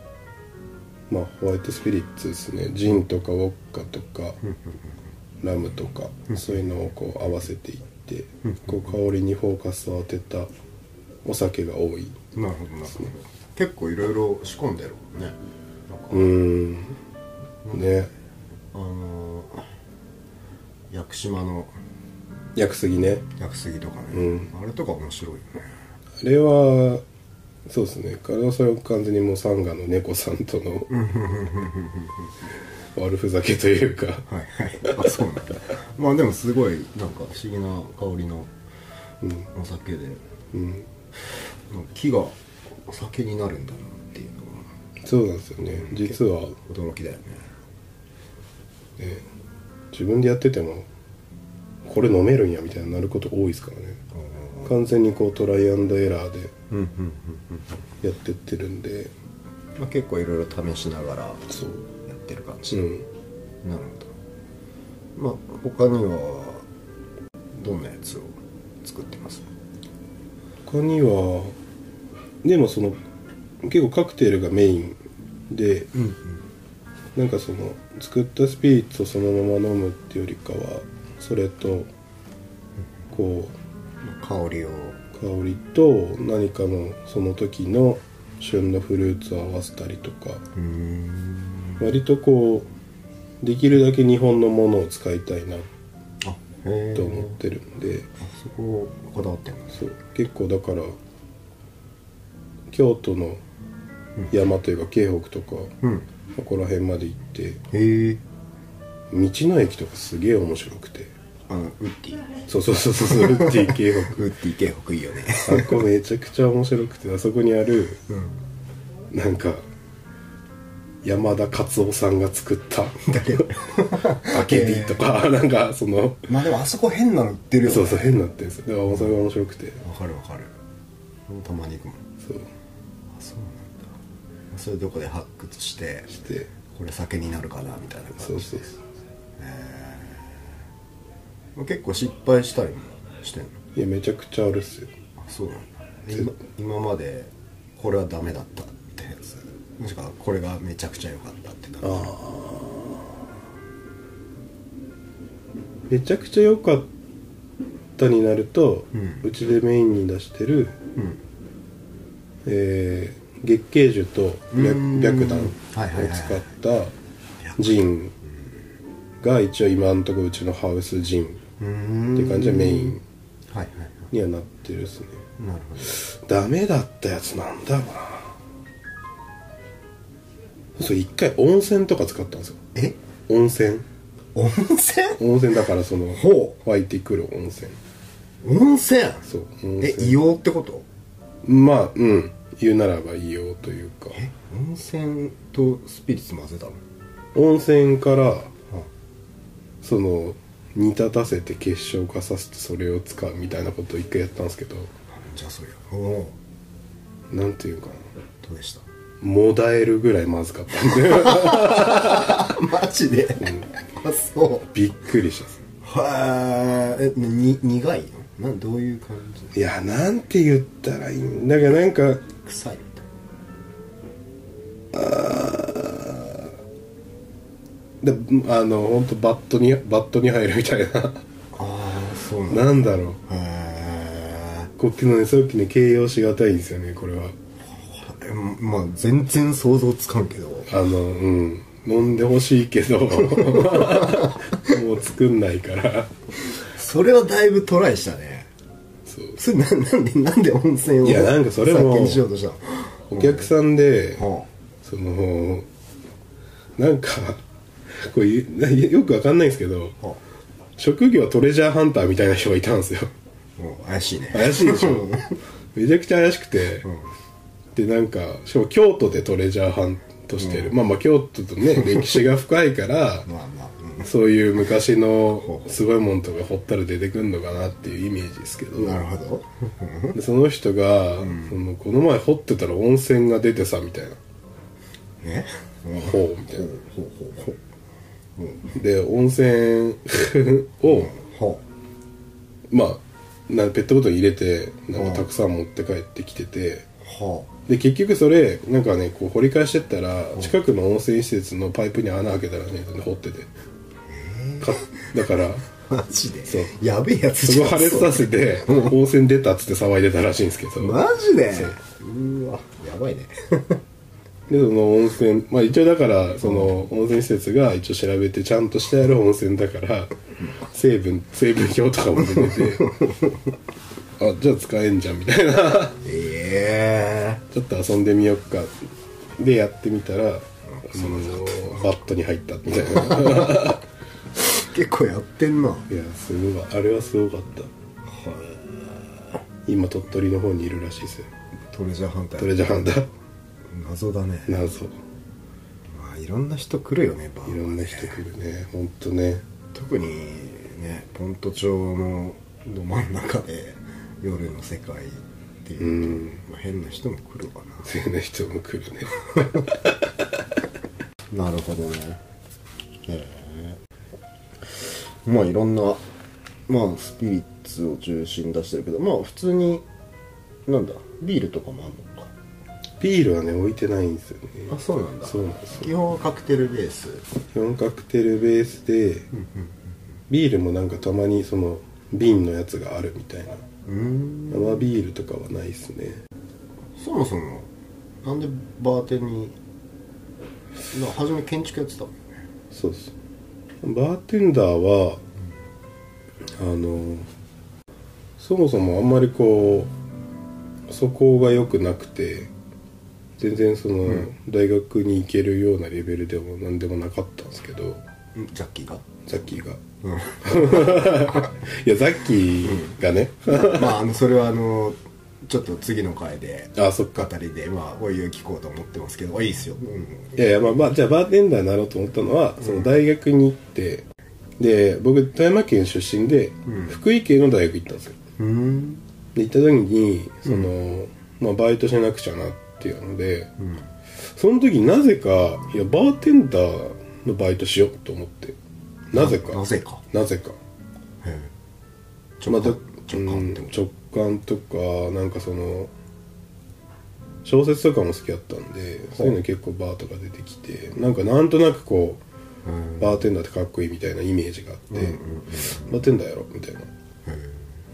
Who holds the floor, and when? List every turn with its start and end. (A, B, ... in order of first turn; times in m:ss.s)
0:01.1-0:04.4 A
0:04.4-0:04.8 B
0:05.4-0:10.5 A
0:08.4-0:08.9 B
0:11.2-0:12.2 A
0:12.3-0:16.3 B
0:16.1-0:17.0 A
0:17.7-0:18.1 A
0:18.7-0:19.7 B
0:20.9-0:21.7 B
0:22.6-0:23.2 A
0:23.4-0:25.8 B
0:24.1-0:24.5 A
0:26.2-0:27.0 A
0:27.7-0:30.9 A
0:30.9-0:32.3 B
0:33.0-0:34.3 A
0:34.3-0:38.5 B
0:34.8-0:35.2 A
0:39.5-0:40.2 B
0:40.5-0:40.9 A
0:41.2-0:44.7 B
0:45.0-0:46.6 A
0:45.6-0:47.5 B
0:49.0-0:49.2 A
0:49.9-0:50.9 A
0:51.8-0:54.0 A
0:54.1-0:54.7 B
0:54.6-0:56.5 A
0:56.7-0:57.7 B
0:58.0-0:59.1 A
0:59.8-1:01.4 B
1:01.5-1:01.8 A
1:02.0-1:02.8 B
1:02.7-1:03.0 A
1:03.6-1:04.1 B
1:05.1-1:06.6 B
1:07.5-1:09.5 B
1:10.6-1:11.5 A
1:12.4-1:13.0 A
1:13.6-1:15.0 A
1:15.5-1:15.9 A
1:15.9-1:16.4 B
1:17.1-1:21.9 A
1:23.1-1:23.6 A
1:24.0-1:25.0 B
1:25.1-1:30.4 A
1:30.5-1:31.8 B
1:31.8-1:32.7 A
1:33.4-1:35.7 A
1:36.2-1:37.4 B
1:36.9-1:38.1 A
1:38.2-1:39.8 B
1:39.8-1:41.0 A
1:42.7-1:43.4 A
1:44.3-1:45.7 A
1:45.8-1:46.1 B
1:46.4-1:47.6 A
1:47.7-1:48.2 B
1:49.1-1:51.1 A
1:51.5-1:52.4 B
1:52.5-1:54.2 A
1:53.0-1:55.8 B
1:55.4-1:58.0 A
1:58.1-1:58.4 B
1:59.1-1:59.6 A
2:01.0-2:03.5 A
2:03.0-2:05.0 B
2:04.0-2:06.3 A
2:06.3-2:08.2 B
2:07.6-2:09.8 A
2:08.9-2:09.2 B
2:09.8-2:10.5 B
2:11.3-2:12.0 B
2:12.2-2:12.5 A
2:13.1-2:13.9 B
2:14.5-2:16.1 B
2:16.1-2:16.5 A
2:16.7-2:18.6 B
2:18.2-2:18.8 A
2:19.4-2:20.6 B
2:21.5-2:23.6 B
2:23.8-2:24.9 A
2:25.2-2:32.2 B
2:31.8-2:32.7 A
2:35.9-2:36.9 A
2:38.0-2:40.8 A
2:38.9-2:39.2 B
2:41.0-2:41.2 B
2:42.4-2:46.9 A
2:44.5-2:46.4 B
2:47.4-2:47.8 B
2:47.6-2:48.1 A
2:49.2-2:51.4 A
2:51.6-2:53.0 B
2:52.1-2:53.0 A
2:53.5-2:54.1 B
2:54.1-2:55.2 A
2:55.4-2:56.0 B
2:55.9-2:58.3 A
3:00.8-3:02.6 A
3:03.3-3:03.8 A
3:04.3-3:05.2 B
3:05.2-3:07.8 A
3:06.1-3:06.6 B
3:08.4-3:09.3 B
3:09.3-3:10.2 A
3:09.8-3:10.9 B
3:11.4-3:14.2 A
3:14.1-3:16.8 B
3:17.3-3:18.5 A
3:19.8-3:24.9 A
3:25.1-3:26.4 B
3:27.3-3:28.1 A
3:28.4-3:28.8 B
3:29.2-3:32.5 A
3:30.9-3:34.7 B
3:33.4-3:33.7 A
3:34.7-3:35.6 A
3:35.8-3:39.5 B
3:39.5-3:42.3 A
3:42.4-3:43.0 B
3:44.9-3:46.5 A
3:48.0-3:51.2 A
3:51.5-3:54.7 B
3:52.5-3:53.2 A
3:54.8-3:57.4 A
3:57.7-4:00.7 B
4:00.7-4:06.1 A
4:03.2-4:04.6 B
4:06.6-4:08.5 B
4:09.1-4:09.4 A
4:09.4-4:13.5 B
4:11.0-4:12.2 A
4:13.1-4:14.3 A
4:14.2-4:14.5 B
4:14.8-4:15.6 A
4:16.8-4:20.0 A
4:20.8-4:23.1 A
4:23.6-4:25.4 B
4:24.3-4:25.2 A
4:25.7-4:26.9 A
4:27.8-4:33.3 A
4:30.4-4:30.7 B
4:31.7-4:32.2 B
4:33.3-4:34.1 B
4:34.0-4:39.0 A
4:35.4-4:35.7 B
4:38.8-4:40.2 B
4:40.1-4:44.2 A
4:41.2-4:41.6 B
4:45.2-4:47.6 B
4:46.0-4:46.7 A
4:48.4-4:48.7 B
4:48.7-4:51.1 A
4:50.8-4:51.6 B
4:52.7-4:56.9 A
4:54.9-4:55.3 B
4:57.0-4:57.5 B
4:57.7-5:03.5 A
5:04.1-5:05.0 B
5:04.6-5:05.7 A
5:05.6-5:09.0 B
5:06.5-5:06.7 A
5:07.4-5:11.8 A
5:10.8-5:13.8 B
5:14.5-5:22.9 A
5:16.4-5:16.8 B
5:22.2-5:23.6 B
5:24.2-5:26.0 A
5:26.0-5:27.4 B
5:27.5-5:28.8 A
5:29.4-5:33.8 A
5:30.7-5:31.9 B
5:32.7-5:33.8 B
5:34.3-5:35.9 B
5:35.9-5:37.7 A
5:38.0-5:39.4 B
5:39.6-5:41.3 A
5:41.7-5:42.5 B
5:42.4-5:43.1 A
5:43.6-5:44.6 B
5:44.5-5:44.9 A
5:45.9-5:48.2 B
5:47.5-5:49.4 A
5:49.7-5:57.9 B
5:55.8-5:56.4 A
5:57.8-6:00.1 A
6:01.3-6:02.2 B
6:03.0-6:03.8 B
6:04.6-6:06.0 B
6:06.7-6:09.8 B
6:10.6-6:12.3 B
6:13.0-6:15.9 A
6:14.7-6:17.2 B
6:17.5-6:19.3 A
6:19.3-6:19.8 B
6:20.3-6:23.6 A
6:23.8-6:24.9 B
6:24.5-6:26.2 A
6:27.0-6:27.7 B
6:28.2-6:29.6 B
6:30.9-6:32.2 B
6:32.7-6:33.1 A
6:33.8-6:35.2 A
6:36.6-6:37.3 A
6:38.4-6:39.9 A
6:40.9-6:42.5 A
6:43.4-6:48.0 A
6:48.3-6:49.2 B
6:49.3-6:49.8 A
6:50.0-6:51.5 B
6:50.4-6:54.0 A
6:52.6-7:00.4 B
6:56.8-6:57.3 A
7:00.3-7:04.0 A
7:02.6-7:02.9 B
7:04.6-7:08.2 A
7:06.7-7:07.0 B
7:08.4-7:09.0 B
7:09.3-7:13.5 A
7:13.6-7:13.8 B
7:14.3-7:18.6 A
7:19.1-7:20.6 A
7:19.1-7:20.0 B
7:21.2-7:21.5 B
7:22.4-7:23.7 B
7:22.5-7:25.9 A
7:27.4-7:32.2 A
7:32.6-7:33.2 B
7:33.0-7:35.2 A
7:34.9-7:36.0 B
7:35.8-7:36.9 A
7:37.2-7:37.7 B